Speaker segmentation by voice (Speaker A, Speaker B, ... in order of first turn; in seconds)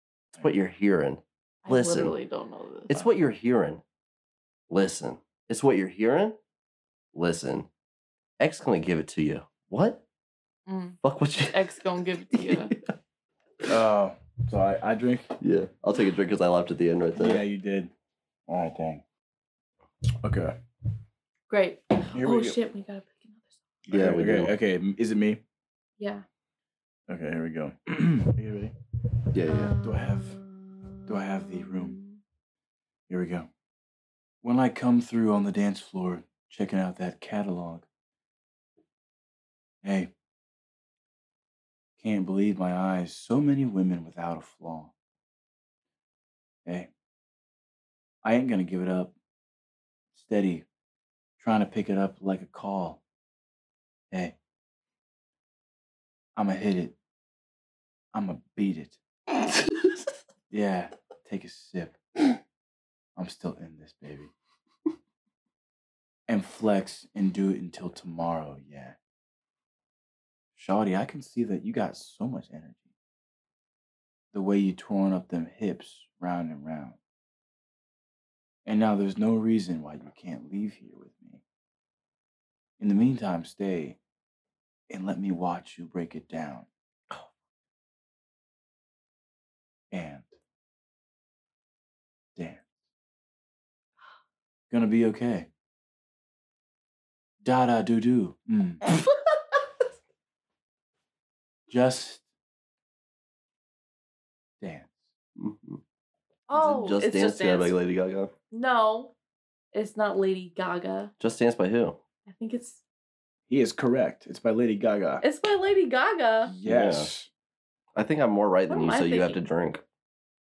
Speaker A: 0.3-2.1, 2.9-3.8, 4.7-6.4, 7.1-7.7, 8.4-10.0, 11.0-12.9, 15.4-17.4, 23.9-24.5, 29.3-29.7, 105.3-105.8, 106.5-108.3, 111.2-112.0, 116.7-117.1, 118.0-119.8
Speaker B: 1.6-3.0, 10.7-11.0, 11.5-12.7, 21.5-23.5, 26.0-26.2, 29.4-32.2, 106.5-107.8, 108.5-109.1, 109.7-111.1, 112.2-112.8, 115.2-116.5, 118.7-119.4
Speaker C: 13.7-15.3, 17.1-17.9, 18.5-19.0, 20.2-20.6, 22.1-22.6, 23.9-25.4, 27.1-28.7, 29.8-30.4, 31.1-32.0, 33.1-33.5, 34.4-37.9, 39.8-40.1, 42.0-44.9, 48.2-49.1, 50.1-50.6, 51.4-53.0, 56.4-56.9, 58.1-59.0, 60.5-62.4, 63.1-64.3, 66.3-69.0, 70.5-72.8, 74.3-77.0, 78.6-81.4, 82.8-84.0, 84.9-86.7, 89.9-90.3, 92.3-92.6, 94.7-95.5, 97.4-98.9, 101.7-102.2, 104.6-104.9, 113.5-115.2, 116.5-117.3